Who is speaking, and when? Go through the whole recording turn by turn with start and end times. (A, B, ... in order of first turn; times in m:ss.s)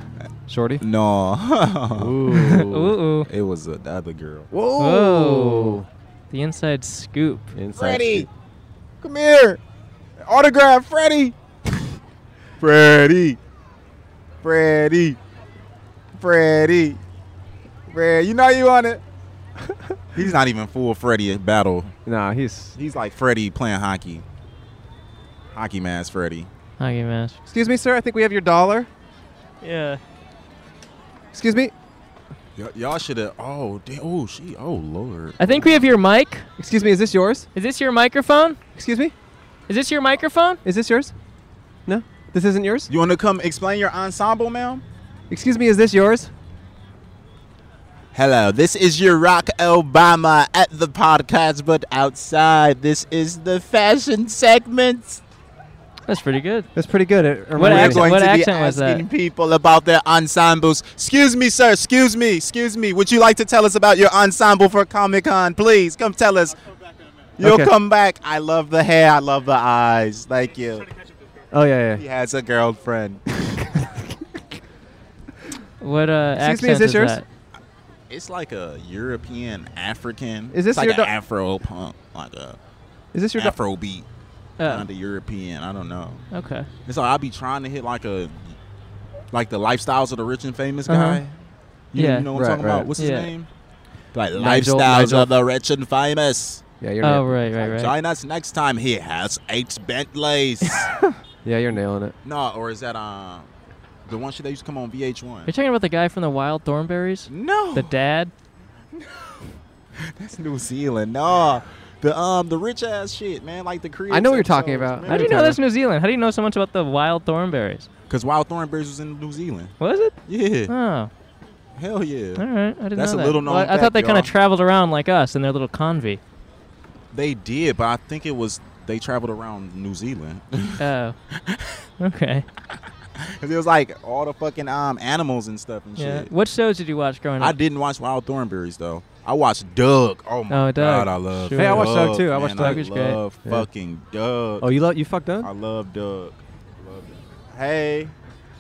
0:00.5-0:00.8 A
0:00.8-0:02.2 B
0:01.9-0:03.0 A
0:02.3-0:03.3 C
0:03.2-0:04.5 B
0:04.5-0:05.8 A
0:04.8-0:05.8 C
0:06.3-0:07.5 C
0:07.5-0:08.3 A
0:07.7-0:08.3 B
0:09.0-0:09.6 B
0:10.2-0:11.3 B
0:12.6-0:13.4 B
0:14.4-0:15.2 B
0:16.1-0:17.0 B
0:17.9-0:19.0 B
0:20.1-0:21.9 B
0:22.0-0:22.7 A
0:22.8-0:24.2 B
0:25.5-0:26.5 B
0:26.8-0:27.4 C
0:27.5-0:28.9 A
0:29.6-0:30.0 C
0:31.3-0:31.7 A
0:32.6-0:35.8 B
0:35.4-0:36.5 C
0:36.6-0:37.5 A
0:37.5-0:38.6 C
0:38.7-0:39.1 A
0:39.7-0:40.6 C
0:40.6-0:41.1 A
0:41.8-0:42.9 A
0:42.9-0:44.8 B
0:45.3-0:46.3 A
0:48.1-0:55.2 B
0:56.1-0:56.7 C
0:56.7-0:58.1 A
0:57.6-0:59.0 C
0:57.6-1:06.6 B
1:07.4-1:10.9 B
1:07.4-1:07.7 A
1:11.5-1:12.0 A
1:12.0-1:13.5 B
1:13.6-1:14.1 A
1:15.8-1:17.2 C
1:16.4-1:17.2 A
1:18.1-1:22.6 B
1:20.5-1:21.1 A
1:23.1-1:23.6 A
1:23.3-1:24.1 B
1:24.6-1:24.9 C
1:24.6-1:26.2 B
1:26.3-1:26.7 C
1:26.8-1:28.5 B
1:29.3-1:31.4 B
1:30.9-1:31.2 C
1:31.9-1:33.5 B
1:31.9-1:32.3 C
1:32.3-1:32.9 A
1:33.0-1:33.3 C
1:34.1-1:36.6 B
1:34.3-1:35.3 A
1:36.8-1:37.5 A
1:37.0-1:37.9 C
1:37.5-1:40.9 B
1:41.4-1:42.1 A
1:42.2-1:43.5 B
1:44.0-1:45.5 B
1:45.4-1:48.3 C
1:47.3-1:47.9 B
1:48.9-1:49.4 B
1:50.0-1:55.6 B
1:54.1-1:55.6 A
1:55.0-1:57.9 C
1:58.1-2:00.7 B
1:59.8-2:01.1 C
2:01.8-2:04.3 B
2:02.4-2:06.2 C
2:07.1-2:11.8 B
2:10.8-2:11.2 C
2:12.0-2:12.4 C
2:13.2-2:16.3 B
2:16.0-2:17.6 C
2:17.4-2:24.7 B
2:20.5-2:22.0 C
2:21.5-2:22.9 A
2:22.6-2:23.2 C
2:24.6-2:25.5 A
2:25.4-2:28.1 B